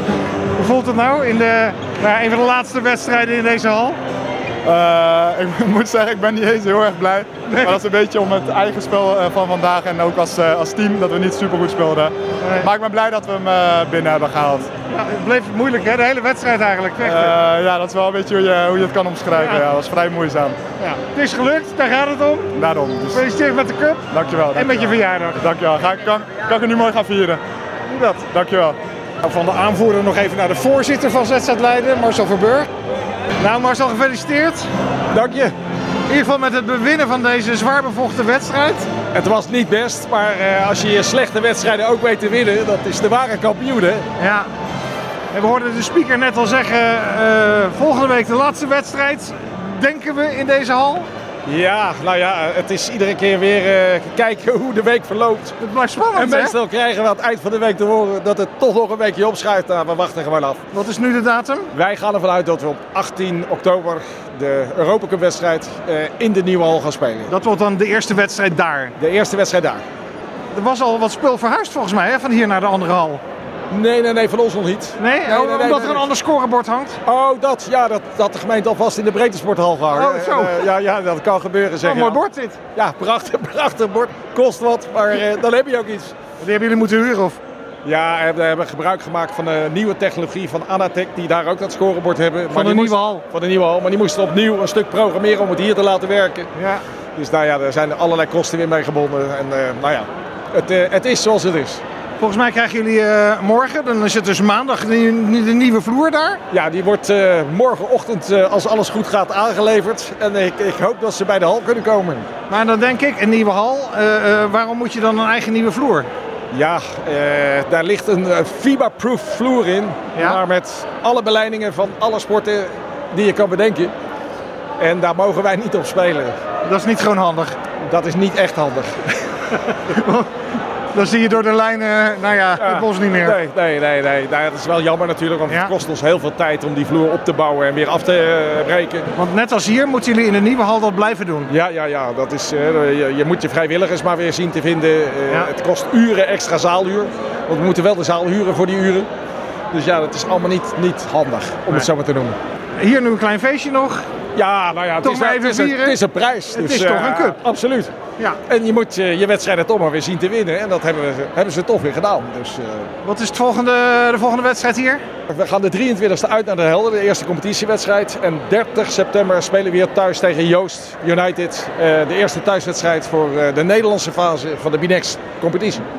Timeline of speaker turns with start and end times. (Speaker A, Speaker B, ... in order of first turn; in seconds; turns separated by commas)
Speaker A: 0.5-4.0, Speaker B: 4.6-14.7, Speaker A: 7.5-7.7, Speaker A: 12.4-12.7, Speaker A: 14.9-17.3, Speaker B: 17.0-20.6, Speaker A: 19.4-19.6, Speaker A: 20.8-22.5, Speaker B: 22.5-23.2, Speaker A: 23.1-25.4, Speaker B: 24.1-27.4, Speaker B: 28.1-28.8, Speaker A: 29.2-32.7, Speaker A: 33.4-34.7, Speaker C: 35.1-35.5, Speaker A: 36.1-38.9, Speaker C: 39.1-44.0, Speaker A: 44.2-44.5, Speaker A: 45.3-51.1, Speaker C: 51.5-55.6, Speaker A: 55.6-56.5, Speaker C: 56.1-60.6, Speaker A: 60.7-61.7, Speaker C: 61.7-67.3, Speaker A: 67.3-68.9, Speaker C: 69.0-69.8, Speaker A: 70.5-73.2, Speaker C: 73.7-76.1, Speaker A: 75.0-77.0, Speaker C: 77.0-82.2, Speaker A: 79.9-80.7, Speaker A: 81.8-82.6, Speaker C: 82.7-86.1, Speaker A: 86.4-87.4, Speaker C: 87.8-96.5, Speaker A: 92.5-93.2, Speaker A: 96.5-96.8, Speaker C: 97.2-101.8, Speaker A: 102.2-106.4, Speaker C: 106.5-112.3, Speaker A: 112.5-116.1, Speaker C: 116.5-123.9, Speaker A: 120.1-120.4, Speaker C: 124.8-126.3, Speaker A: 126.6-127.6, Speaker C: 127.8-129.3, Speaker A: 129.8-130.3, Speaker A: 130.9-133.4, Speaker C: 132.6-139.1, Speaker A: 139.1-141.5, Speaker C: 141.5-149.1, Speaker C: 149.7-152.4, Speaker A: 152.8-154.1, Speaker C: 154.3-157.9, Speaker A: 155.0-156.0, Speaker A: 156.5-157.4, Speaker C: 158.4-162.9, Speaker A: 163.0-165.0, Speaker C: 165.3-175.8